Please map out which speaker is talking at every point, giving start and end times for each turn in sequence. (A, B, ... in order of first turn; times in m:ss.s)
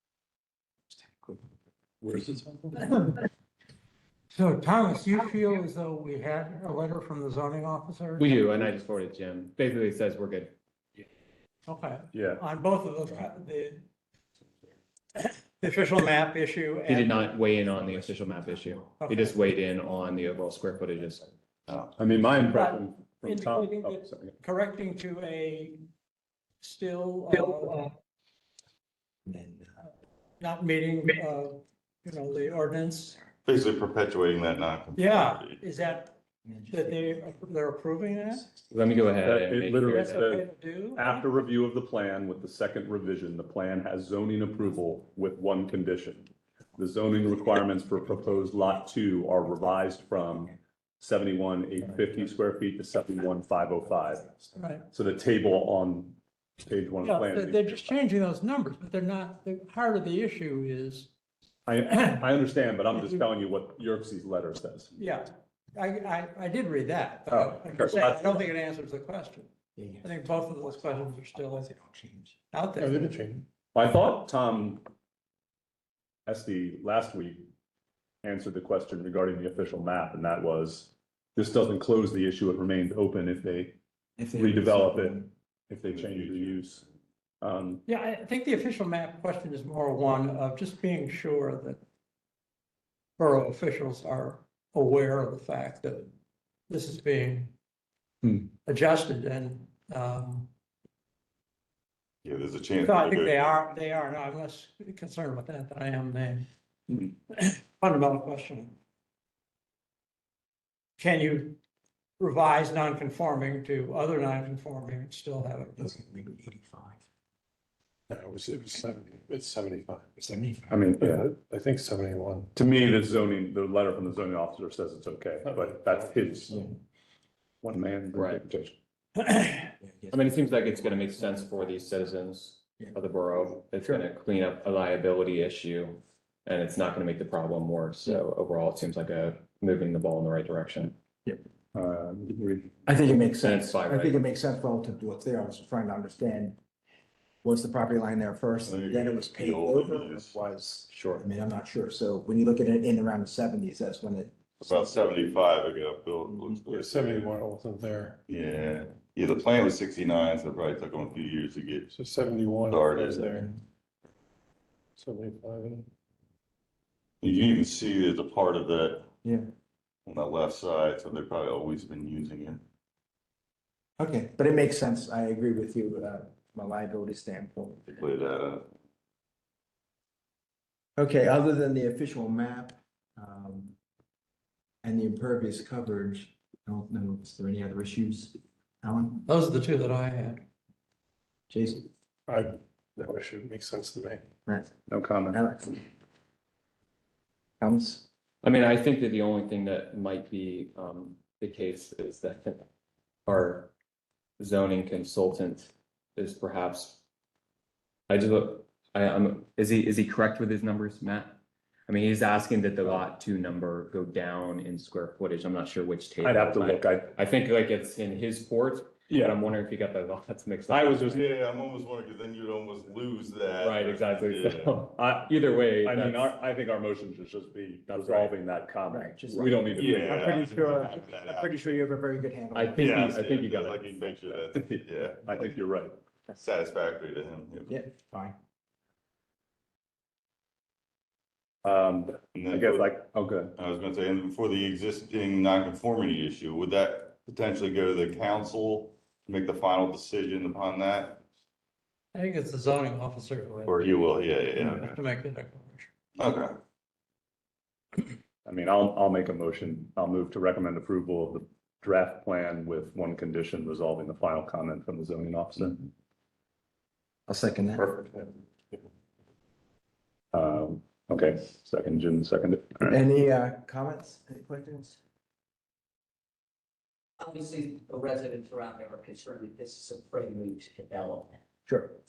0:00.9-0:01.4 A
0:02.0-0:02.4 B
0:02.2-0:02.7 C
0:02.8-0:03.1 D
0:04.3-0:08.5 D
0:08.2-0:10.5 E
0:11.7-0:13.8 D
0:12.1-0:12.4 B
0:15.2-0:17.2 D
0:16.9-0:21.3 E
0:19.0-0:19.4 D
0:21.7-0:21.9 F
0:22.0-0:24.4 B
0:22.5-0:25.8 D
0:26.6-0:27.9 D
0:29.3-0:29.8 A
0:30.4-0:33.2 D
0:33.5-0:35.6 F
0:35.0-0:36.2 D
0:36.5-0:37.2 A
0:36.7-0:38.5 D
0:38.7-0:40.3 E
0:39.2-0:57.9 B
0:40.0-0:41.2 D
0:54.6-0:54.8 D
0:57.0-1:01.1 D
1:01.7-1:04.9 B
1:05.0-1:09.5 D
1:07.3-1:08.4 B
1:09.8-1:12.4 A
1:10.0-1:11.7 D
1:12.5-1:13.2 D
1:12.8-1:13.5 C
1:13.7-1:14.8 B
1:16.3-1:17.5 B
1:18.2-1:26.8 B
1:24.2-1:25.3 A
1:25.8-1:26.6 F
1:27.4-1:27.8 B
1:27.9-1:31.8 D
1:33.2-1:36.1 D
1:36.7-1:37.6 D
1:38.6-1:40.5 D
1:42.2-1:43.4 F
1:42.8-1:48.8 D
1:51.0-1:51.6 D
1:52.2-1:56.0 D
1:55.8-1:57.0 A
1:58.1-2:00.1 C
2:00.2-2:00.8 A
2:00.7-2:01.3 B
2:00.9-2:02.5 C
2:02.6-2:06.6 B
2:05.4-2:06.5 C
2:06.5-2:06.7 A
2:07.6-2:08.8 B
2:08.1-2:08.4 E
2:09.2-2:09.7 D
2:09.8-2:12.2 A
2:10.1-2:21.0 E
2:13.6-2:14.1 A
2:21.8-2:22.8 B
2:22.9-2:26.6 A
2:23.4-2:24.2 E
2:27.4-2:34.4 A
2:28.7-2:30.4 F
2:30.9-2:31.2 E
2:34.6-2:37.3 F
2:36.7-2:38.2 C
2:38.3-2:41.9 F
2:41.9-2:43.5 C
2:42.7-2:43.4 F
2:45.0-2:45.9 C
2:47.2-2:49.1 F
2:50.1-2:52.6 F
2:54.0-2:57.9 A
2:57.9-2:58.7 F
3:01.0-3:03.8 A
3:04.8-3:09.2 A
3:09.3-3:10.4 D
3:11.5-3:11.9 A
3:12.3-3:14.2 C
3:14.9-3:15.4 B
3:15.3-3:15.9 A
3:17.6-3:18.1 A
3:18.4-3:22.7 E
3:23.3-3:23.7 E
3:24.4-3:27.0 E
3:28.1-3:31.4 E
3:31.9-3:41.2 E
3:36.2-3:37.1 B
3:39.1-3:39.5 B
3:40.7-3:41.2 B
3:40.9-3:44.8 F
3:43.6-3:46.4 E
3:45.0-3:45.3 B
3:45.8-3:50.4 B
3:47.9-3:48.3 E
3:48.9-3:53.2 A
3:49.7-3:51.7 F
3:52.5-3:54.0 E
3:52.8-3:55.6 F
3:53.6-3:55.9 B
3:56.4-3:57.7 F
3:57.7-3:58.4 A
4:01.6-4:03.5 B
4:02.3-4:02.9 F
4:03.6-4:11.2 F
4:12.1-4:15.9 D
4:13.7-4:15.0 F
4:16.2-4:16.6 F
4:18.4-4:25.8 B
4:27.3-4:27.9 A
4:30.3-4:33.0 B
4:32.9-4:35.0 A
4:37.2-4:41.4 G
4:41.7-4:42.0 A